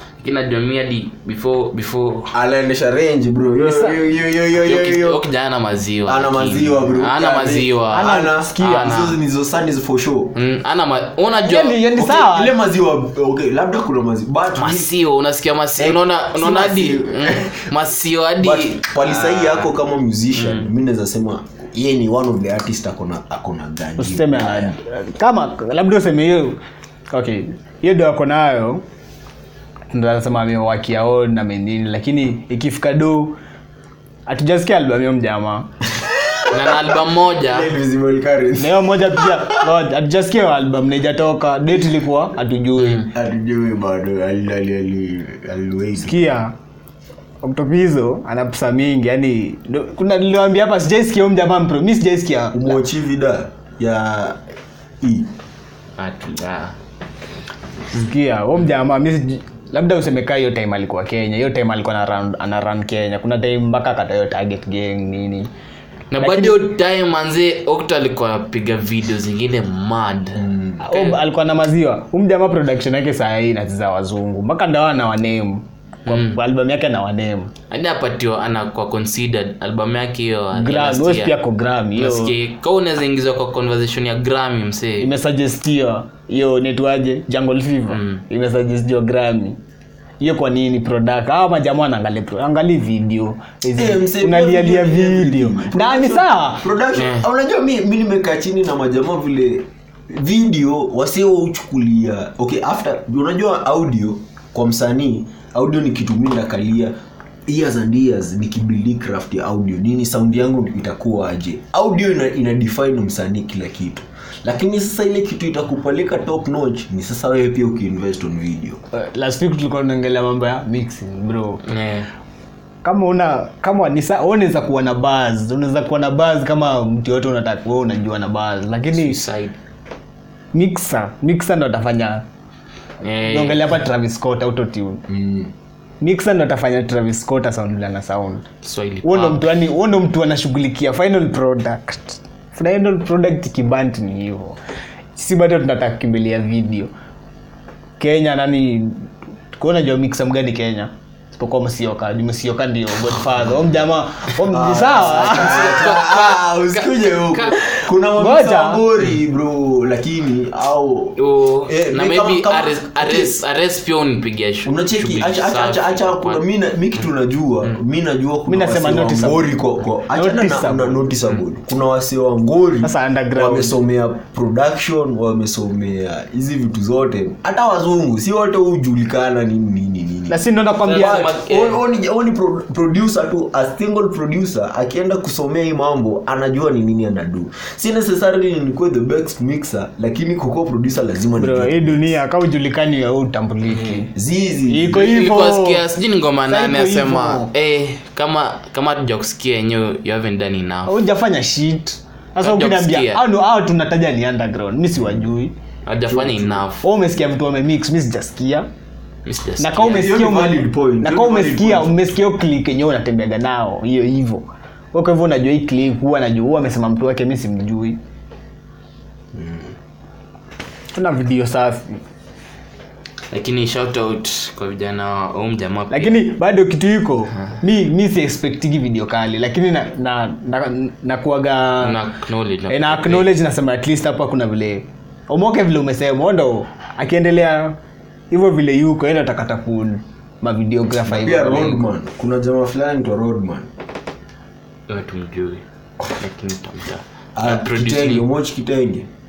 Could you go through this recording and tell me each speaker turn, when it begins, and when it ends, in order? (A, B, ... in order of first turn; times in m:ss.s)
0:00.2-0:02.3 A
0:02.3-0:05.2 B
0:03.6-0:04.0 C
0:04.5-0:09.2 A
0:06.0-0:10.4 B
0:07.9-0:09.0 C
0:10.3-0:11.8 A
0:11.4-0:12.6 C
0:11.9-0:14.9 B
0:14.6-0:19.7 A
0:15.8-0:17.7 B
0:18.4-0:24.8 B
0:20.4-0:20.7 A
0:24.0-0:26.6 C
0:27.1-0:28.8 C
0:29.9-0:33.4 C
0:34.3-0:35.7 C
0:36.0-0:39.6 B
0:36.5-0:37.7 A
0:38.6-0:43.1 C
0:42.8-0:43.0 A
0:43.1-0:46.3 B
0:46.0-0:46.5 C
0:47.4-0:52.8 C
0:52.5-0:54.4 B
0:55.0-0:55.3 B
0:56.0-0:56.7 A
0:57.9-1:05.5 C
1:06.1-1:11.2 A
1:06.2-1:06.6 C
1:10.4-1:10.8 B
1:10.8-1:17.5 C
1:16.1-1:16.4 A
1:17.7-1:21.4 A
1:20.5-1:22.3 C
1:22.0-1:25.1 A
1:25.0-1:29.6 C
1:27.9-1:28.2 A
1:30.2-1:36.6 C
1:33.7-1:46.9 B
1:36.9-1:37.2 A
1:47.5-1:58.8 B
1:58.9-2:01.6 C
2:01.6-2:02.1 A
2:02.8-2:09.2 C
2:08.9-2:09.6 A
2:10.5-2:12.2 C
2:13.0-2:13.8 A
2:13.3-2:15.0 C
2:15.1-2:15.5 B
2:16.0-2:18.4 C
2:18.6-2:19.5 A
2:19.0-2:24.6 C
2:25.1-2:26.9 C
2:28.0-2:35.8 C
2:34.4-2:43.4 B
2:35.2-2:37.6 A
2:38.2-2:38.9 C
2:41.2-2:46.4 A
2:44.6-3:12.2 B
2:48.5-2:49.5 C
2:50.1-2:51.0 C
2:52.8-2:53.7 C
3:00.3-3:01.3 C
3:00.8-3:01.8 A
3:11.4-3:14.1 C
3:13.7-3:14.0 A
3:14.1-3:15.1 B
3:14.7-3:15.8 C
3:14.9-3:20.9 A
3:16.5-3:17.5 C
3:20.8-3:25.5 C
3:22.4-3:23.2 A
3:25.8-3:26.8 A
3:26.1-3:26.6 B
3:26.8-3:28.7 C
3:29.2-3:30.1 A
3:29.6-3:38.0 C
3:29.8-3:32.0 B
3:39.3-3:39.7 B
3:40.9-3:42.0 C
3:43.3-3:46.3 A
3:45.9-3:52.0 C
3:51.8-3:53.3 A
3:52.7-3:57.8 C
3:58.3-4:01.9 C
4:01.0-4:03.7 B
4:04.9-4:08.3 A
4:07.4-4:09.1 B